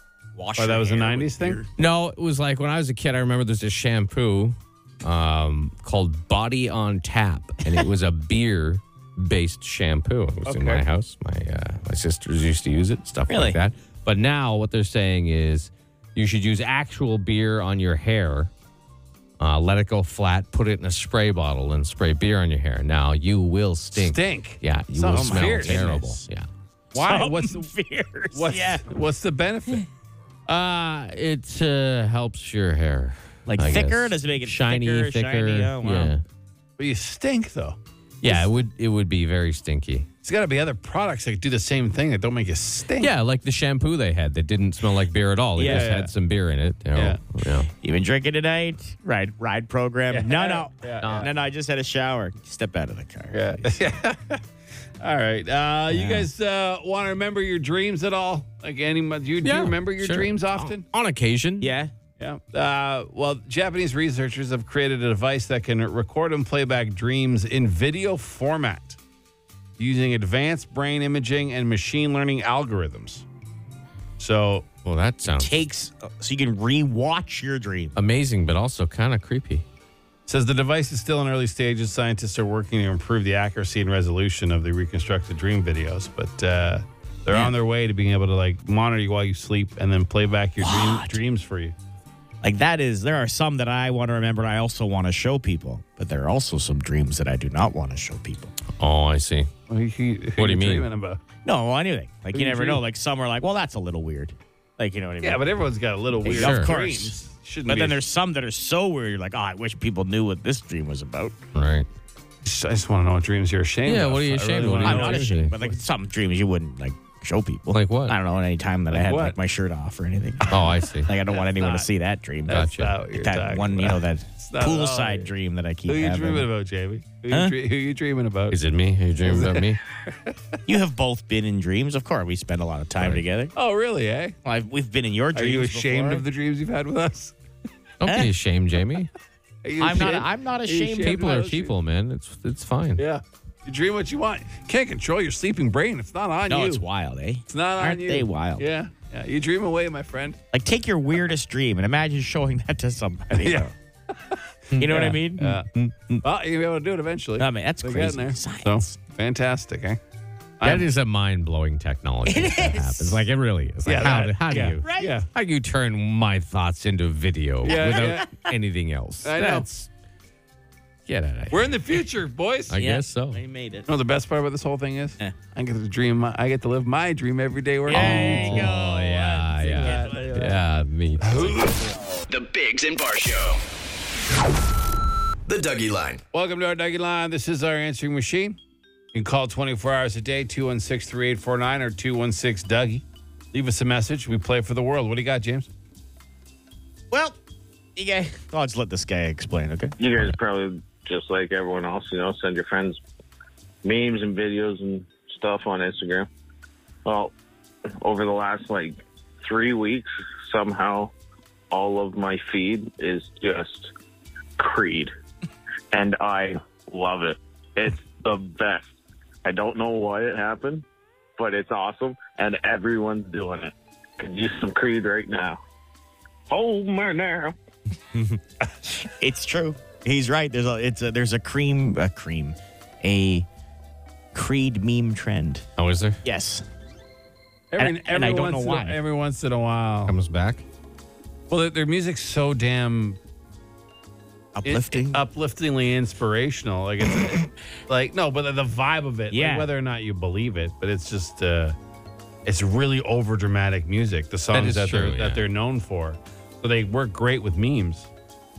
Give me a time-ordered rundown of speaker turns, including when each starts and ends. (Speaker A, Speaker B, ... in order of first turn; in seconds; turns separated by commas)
Speaker A: 0.3-1.7, Speaker B: 0.6-1.6, Speaker C: 1.8-18.5, Speaker B: 10.5-10.8, Speaker A: 13.3-13.6, Speaker C: 19.4-26.5, Speaker B: 23.9-26.0, Speaker A: 24.9-26.2, Speaker B: 26.9-27.7, Speaker A: 26.9-28.9, Speaker B: 28.3-29.8, Speaker C: 30.5-36.2, Speaker A: 33.5-36.1, Speaker B: 36.8-37.8, Speaker C: 38.2-40.1, Speaker B: 40.2-43.1, Speaker C: 43.0-47.7, Speaker A: 45.5-45.9, Speaker B: 45.6-46.1, Speaker B: 46.9-47.2, Speaker A: 47.7-53.5, Speaker B: 50.1-51.3, Speaker C: 51.0-51.3, Speaker B: 53.3-54.4, Speaker B: 55.0-60.8, Speaker A: 55.9-56.3, Speaker C: 59.4-61.7, Speaker A: 61.6-61.9, Speaker B: 62.2-69.0, Speaker B: 69.8-73.2, Speaker B: 74.2-74.7, Speaker C: 74.8-75.6, Speaker A: 75.4-77.9, Speaker C: 78.0-79.6, Speaker B: 80.3-91.7, Speaker A: 90.6-91.2, Speaker A: 92.4-98.5, Speaker C: 98.8-99.5, Speaker B: 99.7-101.2, Speaker C: 100.4-100.9, Speaker A: 101.4-105.4, Speaker B: 102.3-102.8, Speaker B: 105.2-108.0, Speaker A: 106.2-111.3, Speaker C: 106.4-106.7, Speaker C: 111.5-111.9, Speaker B: 112.4-115.7, Speaker C: 113.8-115.5, Speaker A: 114.8-126.5, Speaker C: 117.7-118.2, Speaker B: 118.9-119.4, Speaker C: 120.5-121.1, Speaker B: 121.3-121.9, Speaker B: 122.5-125.3, Speaker C: 122.5-122.9, Speaker B: 125.9-128.6, Speaker A: 127.3-127.5, Speaker C: 128.5-129.8, Speaker B: 129.2-130.3, Speaker A: 130.7-133.5, Speaker B: 133.5-134.3, Speaker A: 134.4-136.2, Speaker B: 135.3-137.3, Speaker C: 138.0-139.1, Speaker B: 139.6-141.7, Speaker A: 139.8-141.4, Speaker C: 140.9-143.0, Speaker B: 143.0-146.8, Speaker A: 146.5-148.6, Speaker B: 147.5-150.4, Speaker A: 150.5-153.7, Speaker B: 153.4-153.7, Speaker B: 154.3-155.7, Speaker A: 154.8-156.2, Speaker B: 156.2-160.0, Speaker A: 157.4-158.9, Speaker B: 160.6-160.8, Speaker C: 160.6-169.9, Speaker A: 162.2-163.2, Speaker B: 163.8-165.3, Speaker A: 164.8-165.2, Speaker B: 167.6-168.3, Speaker A: 167.6-168.5, Speaker B: 169.2-169.7, Speaker C: 171.1-171.8, Speaker B: 171.5-172.8, Speaker C: 172.7-173.4, Speaker A: 172.7-173.9, Speaker B: 173.9-178.7, Speaker A: 177.9-180.5, Speaker C: 177.9-181.6, Speaker B: 179.5-180.5, Speaker B: 181.2-181.8, Speaker D: 182.3-183.6, Speaker D: 185.5-186.2, Speaker B: 186.3-188.6, Speaker B: 189.1-195.7, Speaker A: 197.1-197.4, Speaker A: 197.9-199.9, Speaker E: 200.0-203.0, Speaker E: 203.8-206.3, Speaker E: 207.0-207.3, Speaker E: 208.0-211.1, Speaker E: 211.7-213.9, Speaker E: 214.6-215.1, Speaker E: 215.9-218.9, Speaker E: 219.4-220.8, Speaker E: 221.4-225.6, Speaker E: 226.5-227.5, Speaker A: 228.1-233.5, Speaker A: 234.3-235.7, Speaker C: 235.8-236.2, Speaker A: 236.2-236.6, Speaker B: 237.7-240.2, Speaker A: 237.8-239.0, Speaker C: 240.1-240.6, Speaker B: 241.5-243.2, Speaker A: 244.5-245.2, Speaker B: 244.6-251.8, Speaker A: 249.3-249.7, Speaker B: 252.4-258.1, Speaker C: 254.5-255.4